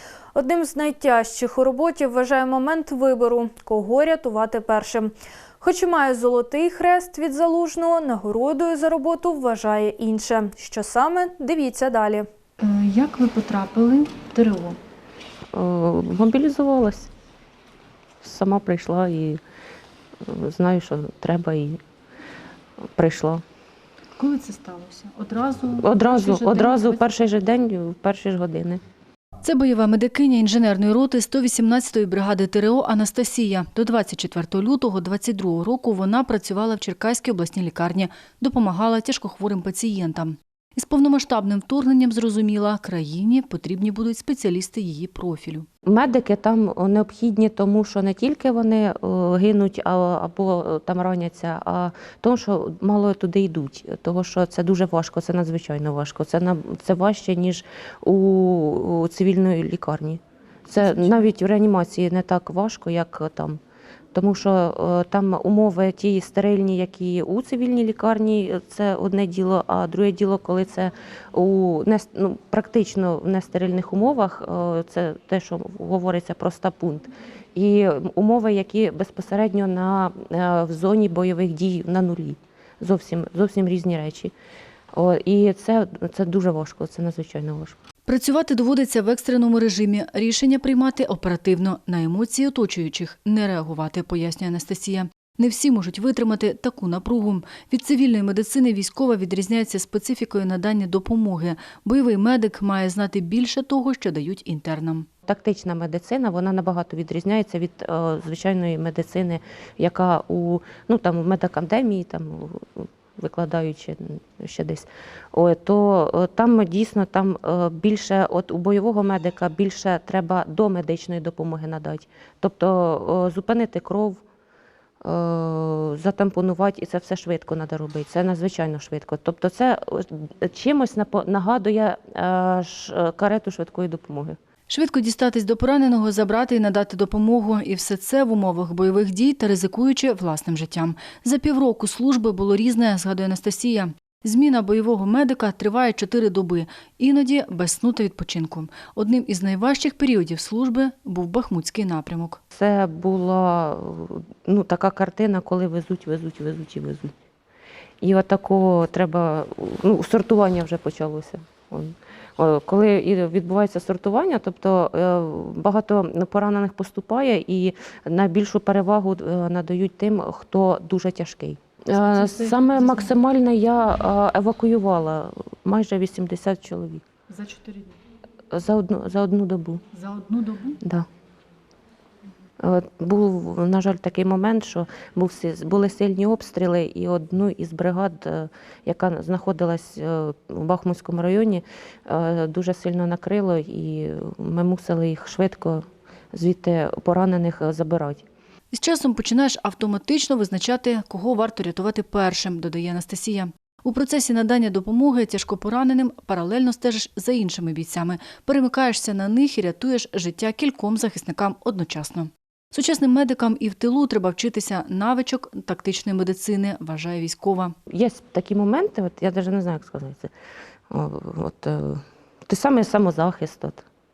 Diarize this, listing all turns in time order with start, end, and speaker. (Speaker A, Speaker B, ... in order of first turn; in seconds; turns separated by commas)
Speaker A: 0.3-12.2, Speaker B: 12.6-14.8, Speaker C: 15.5-17.1, Speaker C: 18.2-19.4, Speaker C: 20.2-21.8, Speaker C: 22.9-23.4, Speaker B: 24.2-27.1, Speaker C: 25.8-28.8, Speaker B: 29.4-45.7, Speaker C: 45.9-63.6, Speaker B: 60.8-61.3, Speaker C: 64.1-84.3, Speaker C: 84.9-87.8, Speaker B: 88.1-105.1, Speaker C: 105.2-124.2, Speaker C: 125.0-134.4, Speaker B: 134.7-152.4, Speaker C: 152.5-157.1, Speaker C: 158.0-177.0, Speaker B: 171.9-173.1, Speaker B: 177.3-178.0, Speaker C: 178.5-179.8, Speaker B: 179.9-180.8, Speaker C: 182.6-198.2, Speaker B: 198.7-217.7, Speaker C: 217.9-220.3, Speaker C: 220.9-223.8